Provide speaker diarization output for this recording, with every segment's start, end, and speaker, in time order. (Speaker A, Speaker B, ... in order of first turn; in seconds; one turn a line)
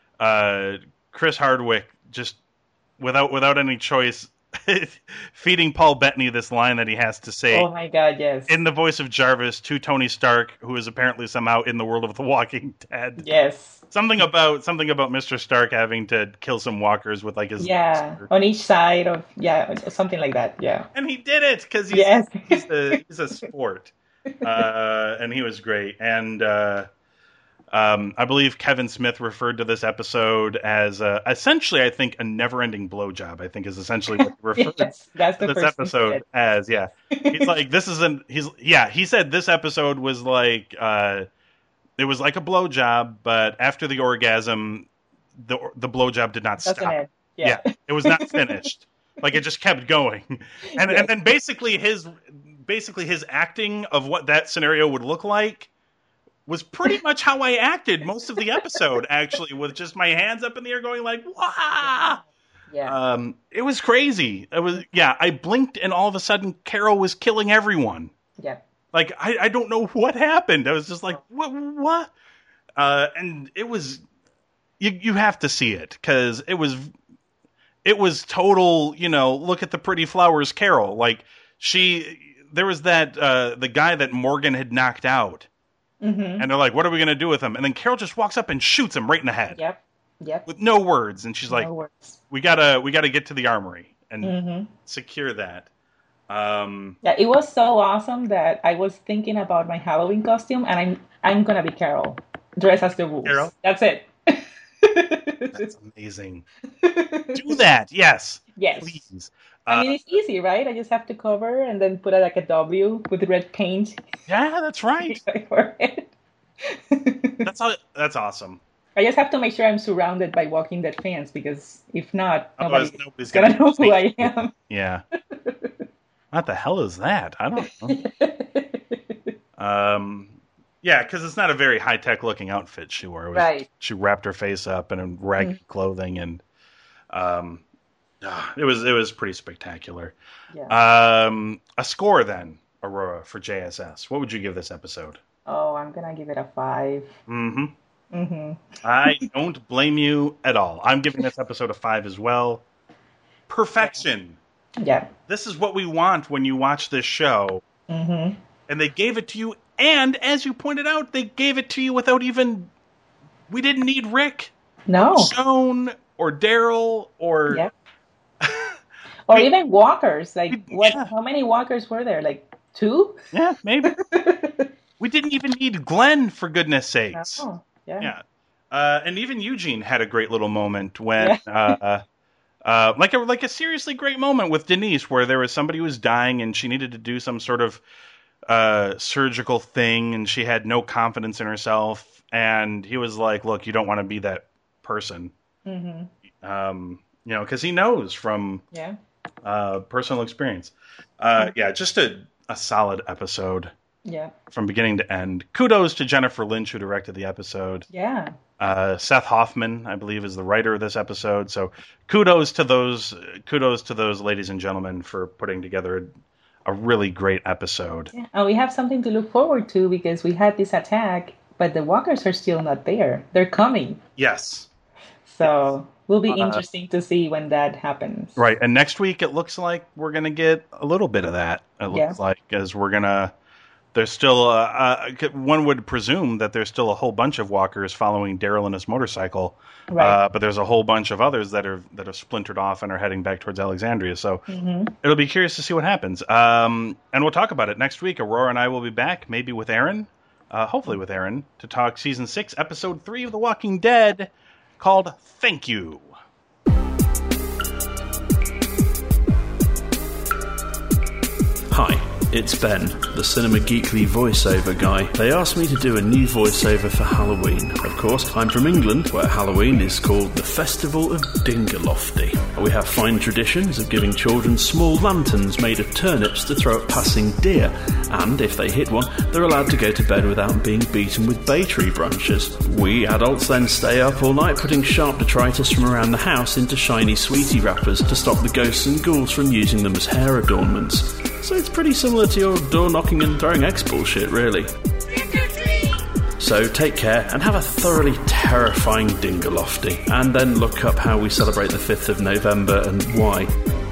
Speaker A: 0.2-2.4
Speaker A: 3.0-7.7
Speaker B: 7.5-8.6
Speaker A: 8.5-13.3
Speaker B: 13.2-13.8
Speaker A: 13.9-18.3
Speaker B: 17.6-20.9
Speaker A: 20.9-26.9
Speaker B: 21.9-23.0
Speaker A: 27.7-41.3
Speaker B: 34.2-36.2
Speaker B: 37.1-37.5
Speaker A: 42.0-55.7
Speaker B: 46.6-48.7
Speaker B: 50.7-51.1
Speaker A: 56.5-62.2
Speaker B: 61.8-63.0
Speaker A: 62.9-68.1
Speaker A: 68.9-72.1
Speaker A: 72.8-74.0
Speaker A: 74.8-76.9
Speaker A: 77.8-85.5
Speaker B: 86.0-86.5
Speaker A: 86.4-89.6
Speaker B: 89.5-90.5
Speaker A: 90.5-91.7
Speaker B: 91.5-92.2
Speaker A: 92.3-95.7
Speaker B: 94.2-94.7
Speaker A: 96.3-97.0
Speaker B: 97.0-105.7
Speaker A: 103.2-103.5
Speaker A: 105.5-106.4
Speaker B: 106.8-107.6
Speaker A: 107.3-110.0
Speaker B: 108.5-109.0
Speaker B: 109.7-114.1
Speaker A: 114.3-115.2
Speaker B: 115.0-116.1
Speaker B: 116.6-117.5
Speaker A: 117.4-118.6
Speaker B: 119.0-124.5
Speaker A: 122.6-125.0
Speaker B: 125.3-125.7
Speaker A: 126.3-128.0
Speaker B: 127.6-129.1
Speaker A: 129.6-136.4
Speaker B: 133.3-133.7
Speaker A: 137.1-137.6
Speaker A: 138.2-140.1
Speaker B: 140.5-140.8
Speaker A: 140.7-145.2
Speaker B: 145.4-147.1
Speaker A: 147.3-147.7
Speaker B: 148.1-149.2
Speaker A: 148.8-152.6
Speaker A: 153.5-154.4
Speaker B: 154.8-155.1
Speaker A: 155.3-157.6
Speaker B: 157.9-158.4
Speaker A: 158.7-162.7
Speaker A: 163.5-167.6
Speaker B: 164.9-165.3
Speaker A: 168.4-168.7
Speaker B: 169.3-173.2
Speaker A: 170.5-171.1
Speaker A: 173.3-173.9
Speaker B: 173.8-174.7
Speaker A: 175.0-177.4
Speaker B: 177.1-178.1
Speaker A: 178.0-182.0
Speaker B: 181.2-181.8
Speaker A: 182.6-187.8
Speaker A: 188.4-195.3
Speaker B: 195.6-196.1
Speaker A: 196.4-198.6
Speaker A: 199.4-203.7
Speaker B: 204.1-204.3
Speaker A: 204.5-207.9
Speaker B: 207.9-208.3
Speaker A: 208.6-216.1
Speaker A: 216.6-218.1
Speaker B: 218.1-224.0
Speaker A: 224.2-224.7
Speaker B: 225.2-228.4
Speaker A: 225.4-225.7
Speaker A: 226.3-226.6
Speaker A: 228.4-233.3
Speaker B: 231.9-232.2
Speaker A: 233.9-244.4
Speaker B: 239.9-240.2
Speaker B: 244.5-244.9
Speaker A: 245.0-256.1
Speaker C: 261.7-294.7
Speaker C: 296.4-303.5